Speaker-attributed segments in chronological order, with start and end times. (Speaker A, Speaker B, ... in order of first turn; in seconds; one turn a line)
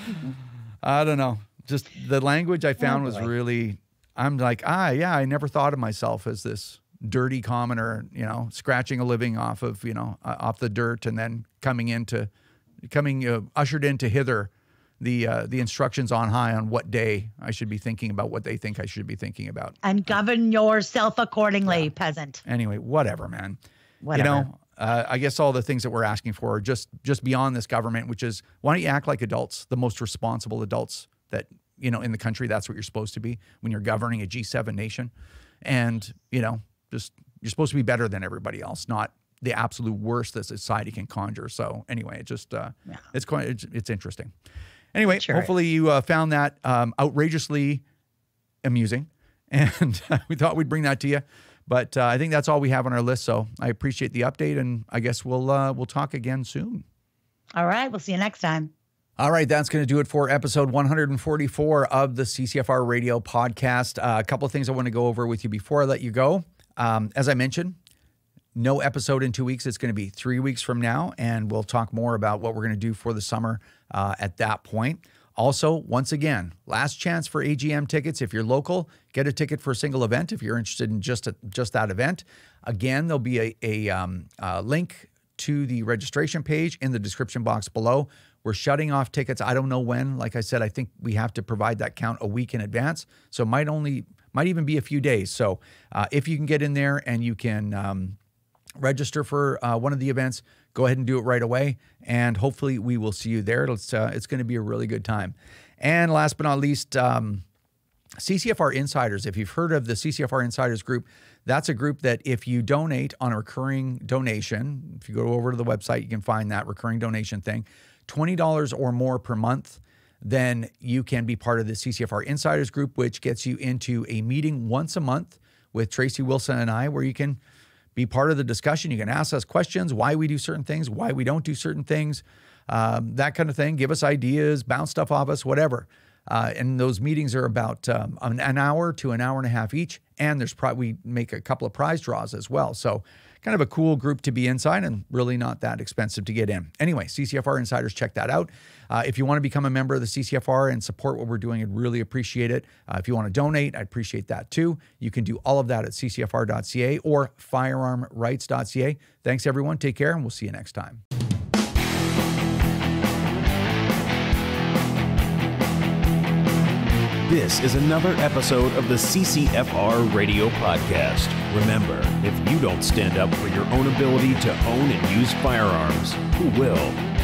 Speaker A: 0.8-12.3
Speaker B: 2.8-3.3
Speaker A: 12.8-19.8
Speaker B: 19.8-22.4
Speaker A: 22.4-23.6
Speaker B: 24.0-24.5
Speaker A: 24.1-35.1
Speaker A: 35.6-44.3
Speaker A: 44.9-47.8
Speaker B: 45.1-45.5
Speaker A: 48.6-56.8
Speaker B: 57.5-58.7
Speaker A: 59.2-67.8
Speaker A: 68.5-98.2
Speaker A: 98.8-107.4
Speaker A: 108.2-127.4
Speaker A: 127.9-161.0
Speaker C: 167.2-177.0